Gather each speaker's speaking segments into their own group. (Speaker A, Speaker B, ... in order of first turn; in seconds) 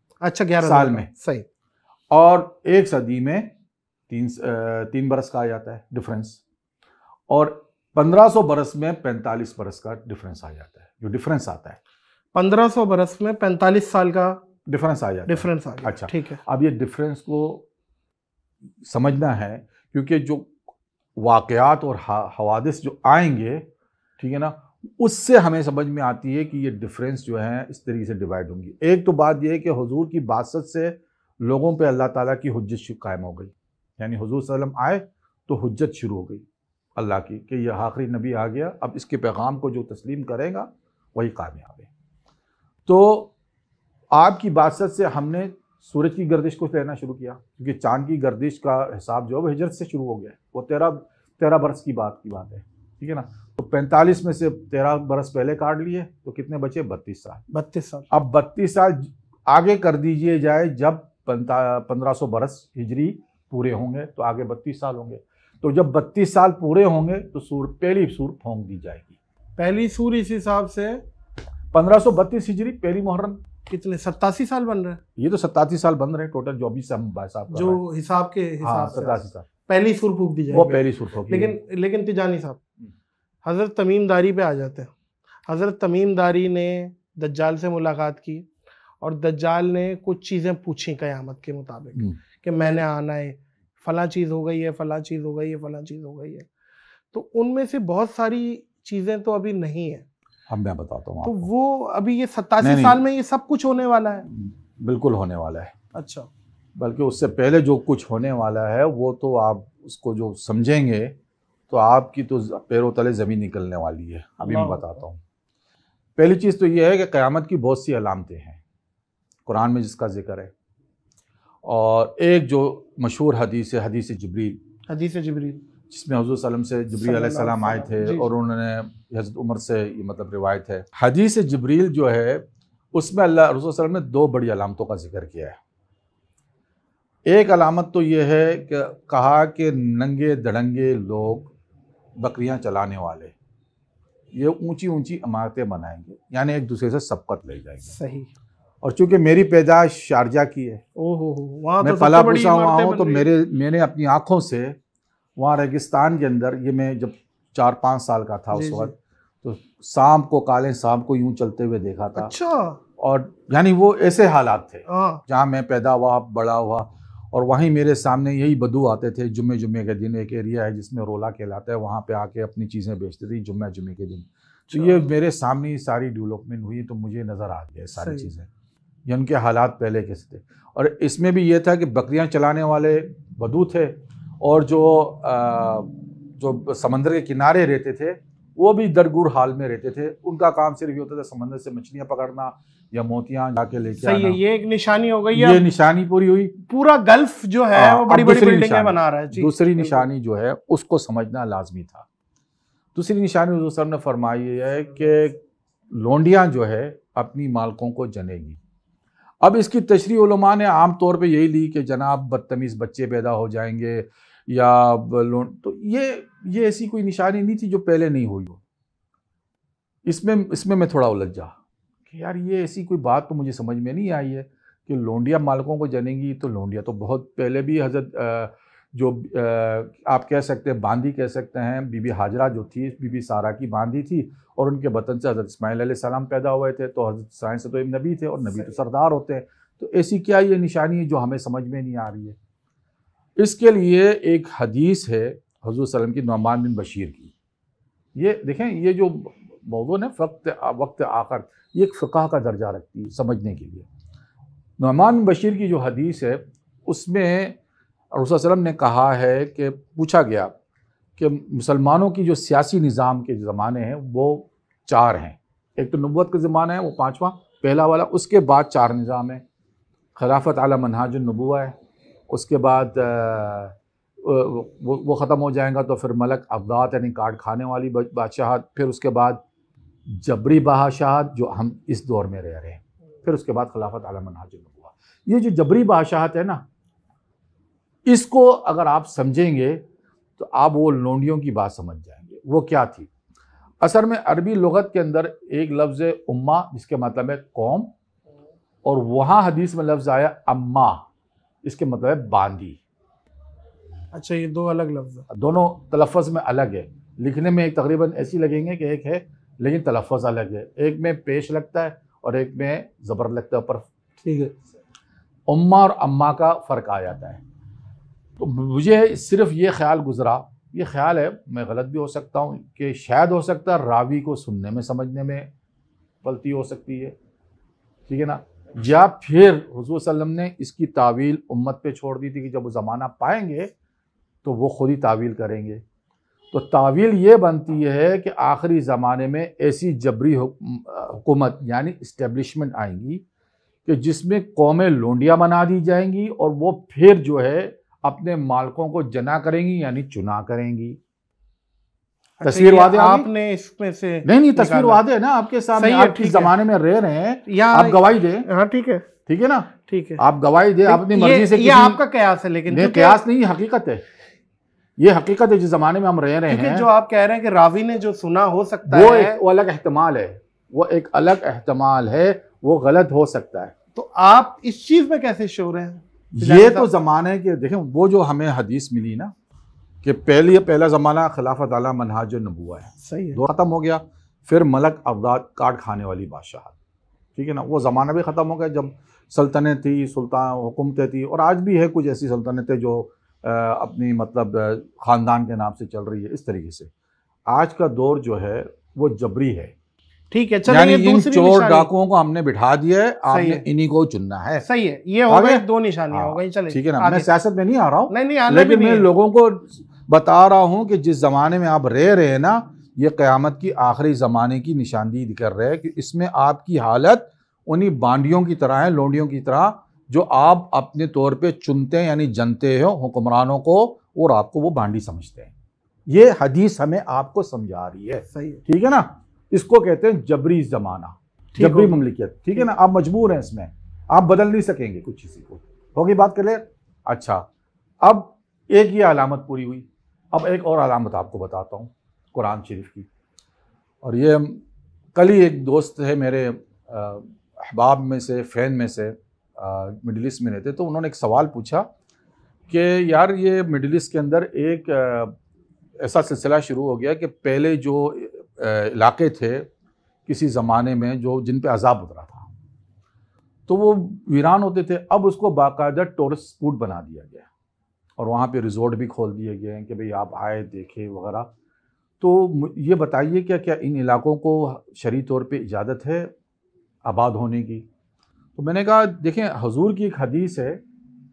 Speaker A: 0.2-1.5, 12.3-14.4, 15.3-16.4, 57.5-58.1, 69.6-71.0, 73.7-75.0, 77.5-82.6, 83.5-84.9, 85.5-88.5, 89.0-96.5, 97.1-100.1, 101.2-104.3, 105.9-106.3, 114.4-114.9, 124.9-125.6, 127.0-128.3, 147.9-148.3, 151.0-153.3, 158.5-158.9, 162.2-162.8, 164.9-165.2, 174.7-175.1, 178.0-178.3, 194.0-195.7, 196.7-200.0, 304.1-305.3, 314.2-314.5, 352.4-355.0, 355.8-356.5, 357.5-359.1, 359.9-360.2, 360.9-363.2, 366.5-369.4, 373.9-376.9, 383.0-383.4, 400.3-401.9, 403.3-403.6, 404.6-407.3, 408.1-409.1, 428.3-428.6, 431.6-432.0
Speaker B: 0.6-1.1, 2.1-3.5, 4.1-6.4, 7.3-11.8, 14.7-17.7, 18.8-20.5, 21.2-23.6, 24.2-36.4, 37.0-41.9, 42.9-43.3, 44.1-57.4, 58.1-69.2, 71.7-73.4, 75.2-77.8, 78.6-79.5, 80.5-81.6, 100.5-101.5, 102.6-103.0, 104.3-105.7, 106.8-111.1, 111.7-115.2, 116.2-118.6, 119.5-120.5, 121.6-124.6, 125.9-135.6, 137.3-141.5, 142.2-143.3, 144.3-147.9, 148.8-150.8, 151.8-154.8, 155.4-162.3, 163.0-178.5, 179.1-194.4, 195.3-196.6, 197.7-202.1, 202.9-205.4, 205.9-208.6, 209.4-218.6, 220.1-221.5, 222.1-242.4, 243.4-247.3, 248.2-253.9, 254.8-257.6, 258.1-260.5, 261.2-269.4, 270.2-271.8, 272.3-279.4, 280.1-286.6, 288.1-289.8, 290.4-293.1, 293.8-297.9, 298.8-301.0, 301.6-302.8, 305.3-313.9, 315.5-317.4, 318.4-325.5, 326.2-327.1, 328.1-333.7, 334.4-335.8, 336.5-343.2, 343.9-351.0, 352.4-353.3, 354.2-358.5, 359.3-362.0, 362.7-364.0, 365.0-366.9, 368.9-373.7, 376.3-379.3, 380.0-386.8, 387.4-396.9, 397.5-399.7, 400.7-404.6, 405.3-425.5, 426.1-437.4, 438.0-443.1, 444.0-444.6, 445.1-451.9, 452.7-455.3, 456.0-459.7, 460.3-462.5, 463.7-467.5, 468.2-471.5, 472.2-476.3, 477.1-477.9, 478.6-480.8